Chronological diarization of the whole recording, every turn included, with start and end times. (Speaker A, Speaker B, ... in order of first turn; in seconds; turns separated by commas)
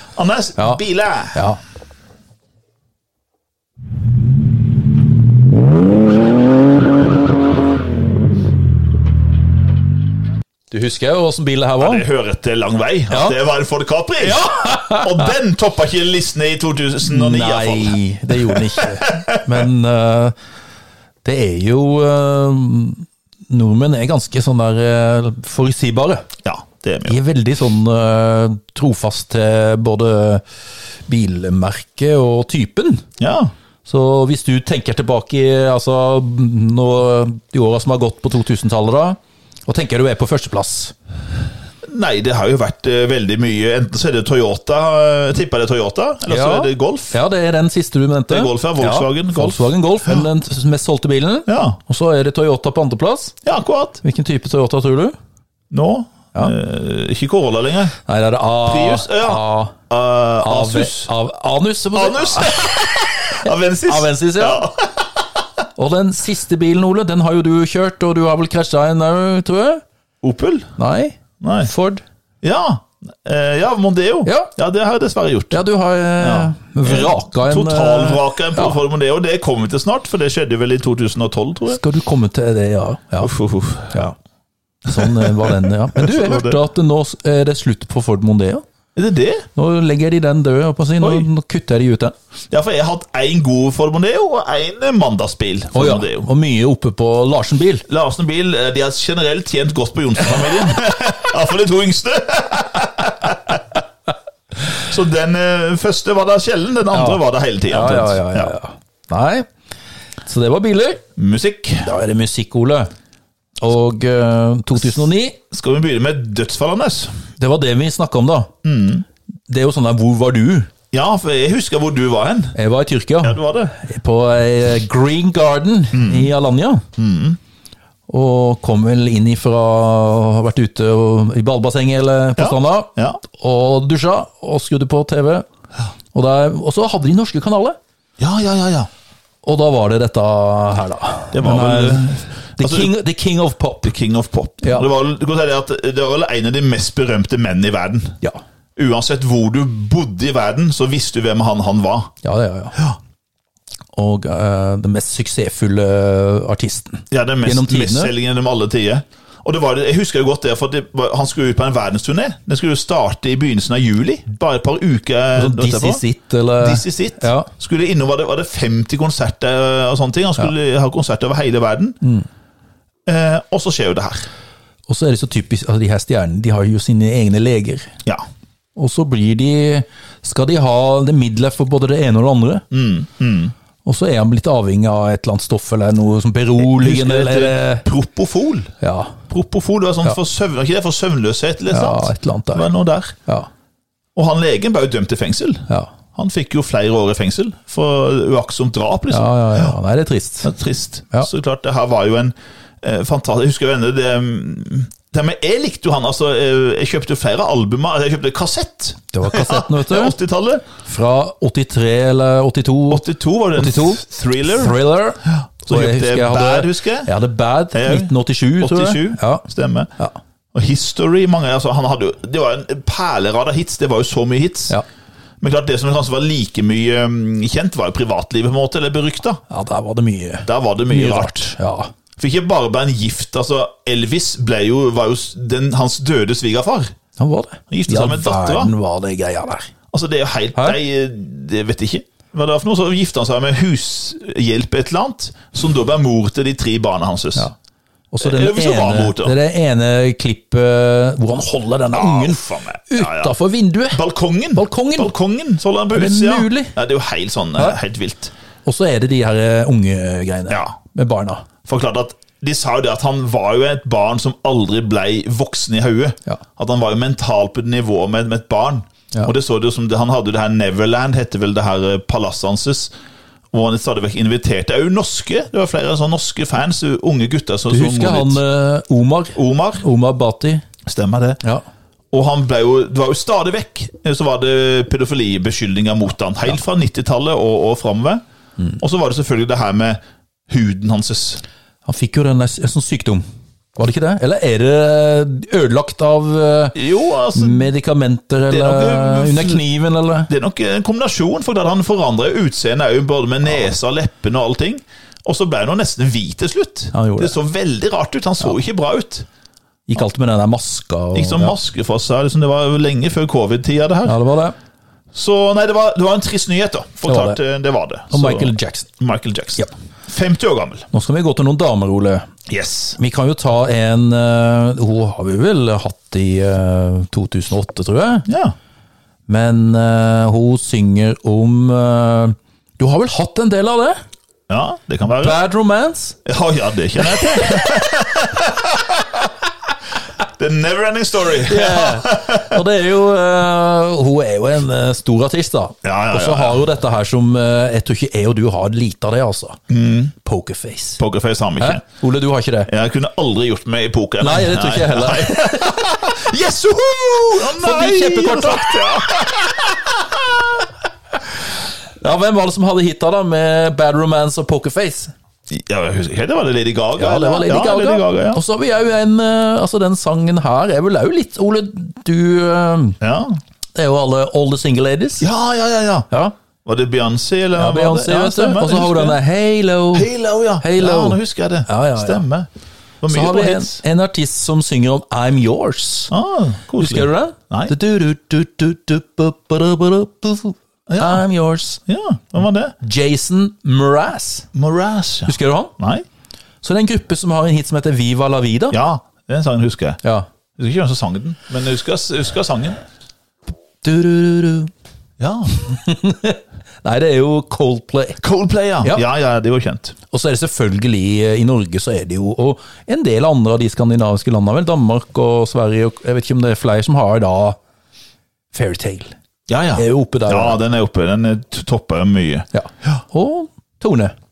Speaker A: 0.1-1.4, Speaker B: 1.3-1.6, Speaker B: 10.7-12.1, Speaker A: 11.8-19.4, Speaker B: 13.1-13.4, Speaker B: 14.2-15.3, Speaker B: 17.0-20.3, Speaker B: 21.2-26.2, Speaker A: 26.4-27.2, Speaker B: 27.1-30.4, Speaker B: 31.1-33.0, Speaker A: 33.2-33.5, Speaker B: 33.9-40.9, Speaker A: 41.8-47.2, Speaker B: 46.3-53.3, Speaker A: 48.3-50.2, Speaker A: 51.5-51.8, Speaker A: 53.4-54.0, Speaker B: 54.0-55.1, Speaker A: 55.7-57.9, Speaker B: 58.0-59.8, Speaker A: 58.6-61.1, Speaker B: 60.4-62.9, Speaker A: 61.9-65.2, Speaker B: 63.4-64.7, Speaker B: 65.8-69.8, Speaker A: 70.2-70.7, Speaker B: 70.8-72.0, Speaker A: 71.4-71.7, Speaker A: 72.4-75.6, Speaker B: 74.2-74.5, Speaker B: 75.5-78.8, Speaker A: 76.2-81.8, Speaker B: 81.7-83.3, Speaker A: 83.2-84.0, Speaker B: 83.9-84.2, Speaker B: 84.9-88.6, Speaker A: 84.9-86.6, Speaker A: 89.0-89.5, Speaker B: 89.5-92.1, Speaker A: 91.0-91.3, Speaker A: 92.5-96.3, Speaker B: 95.7-97.8, Speaker A: 97.9-103.8, Speaker A: 104.7-108.5, Speaker B: 106.9-109.5, Speaker B: 110.2-111.0, Speaker A: 111.2-111.9, Speaker B: 111.8-112.9, Speaker B: 113.6-115.4, Speaker A: 115.5-117.2, Speaker B: 117.4-118.5, Speaker A: 118.6-119.0, Speaker B: 119.5-120.7, Speaker A: 120.9-122.5, Speaker B: 122.5-126.8, Speaker A: 123.2-123.7, Speaker A: 125.9-126.3, Speaker A: 127.0-127.4, Speaker B: 128.1-135.4, Speaker A: 132.4-133.2, Speaker B: 136.1-137.8, Speaker A: 138.2-138.9, Speaker B: 139.4-143.9, Speaker A: 141.3-142.9, Speaker A: 143.8-148.2, Speaker A: 148.8-152.1, Speaker B: 152.2-152.8, Speaker B: 153.9-158.1, Speaker A: 157.1-166.0, Speaker B: 165.3-167.5, Speaker A: 166.6-172.0, Speaker A: 173.1-174.3, Speaker B: 174.9-177.9, Speaker B: 178.8-182.6, Speaker A: 182.7-183.5, Speaker B: 183.8-187.9, Speaker A: 186.6-188.7, Speaker B: 188.8-189.2, Speaker A: 189.3-193.2, Speaker B: 191.7-192.7, Speaker A: 194.1-199.8, Speaker B: 199.1-200.5, Speaker A: 200.4-210.6, Speaker B: 209.1-210.2, Speaker B: 210.8-213.0, Speaker A: 212.9-217.1, Speaker B: 213.5-219.4, Speaker A: 217.7-219.9, Speaker A: 220.5-224.8, Speaker A: 225.4-229.4, Speaker B: 229.5-231.9, Speaker A: 230.4-231.5, Speaker A: 232.2-236.9, Speaker B: 237.2-239.7, Speaker A: 237.7-238.7, Speaker A: 239.9-247.5, Speaker B: 248.1-254.0, Speaker A: 248.2-249.3, Speaker A: 251.9-253.3, Speaker A: 253.9-258.3, Speaker B: 254.6-255.1, Speaker B: 255.9-256.7, Speaker B: 258.6-261.4, Speaker A: 260.5-260.7, Speaker A: 261.6-272.9, Speaker A: 273.5-278.4, Speaker B: 277.7-280.6, Speaker A: 279.4-279.8, Speaker A: 280.9-281.4, Speaker A: 282.1-288.2, Speaker A: 288.8-291.4, Speaker B: 291.9-293.2, Speaker B: 293.8-296.8, Speaker A: 296.7-297.7, Speaker B: 297.3-300.3, Speaker A: 298.5-299.6, Speaker A: 300.3-309.2, Speaker B: 306.9-307.4, Speaker B: 309.9-311.5, Speaker A: 311.1-314.1, Speaker B: 314.0-314.5, Speaker A: 315.1-320.9, Speaker B: 317.1-317.4, Speaker B: 318.1-318.9, Speaker B: 320.9-322.3, Speaker A: 322.5-323.0, Speaker B: 323.0-328.3, Speaker A: 328.3-328.5, Speaker B: 329.3-334.0, Speaker A: 334.5-335.4, Speaker B: 335.2-336.2, Speaker A: 336.2-339.2, Speaker A: 340.4-342.6, Speaker B: 341.4-349.6, Speaker A: 345.8-346.6, Speaker A: 349.7-350.1, Speaker B: 350.2-351.0, Speaker A: 351.0-351.8, Speaker B: 351.6-352.7, Speaker A: 352.7-360.6, Speaker B: 354.2-356.0, Speaker B: 357.5-359.3, Speaker B: 362.0-365.1, Speaker A: 365.5-368.4, Speaker B: 367.0-373.0, Speaker A: 373.0-373.4, Speaker B: 373.7-375.3, Speaker A: 375.2-376.1, Speaker A: 376.6-379.2, Speaker B: 377.5-382.2, Speaker A: 379.9-382.5, Speaker A: 383.0-383.8, Speaker B: 383.1-386.1, Speaker A: 386.1-387.7, Speaker B: 386.8-391.8, Speaker A: 390.9-391.2, Speaker A: 391.9-392.7, Speaker B: 392.8-394.5, Speaker A: 394.5-396.0, Speaker B: 395.3-395.7, Speaker B: 396.6-398.8, Speaker A: 398.7-400.0, Speaker A: 400.6-402.8, Speaker B: 403.8-404.7, Speaker A: 405.2-405.5, Speaker B: 405.5-408.2, Speaker A: 408.2-409.9, Speaker B: 410.1-417.6, Speaker B: 418.5-419.1, Speaker A: 419.5-423.0, Speaker B: 419.8-420.6, Speaker B: 422.5-424.1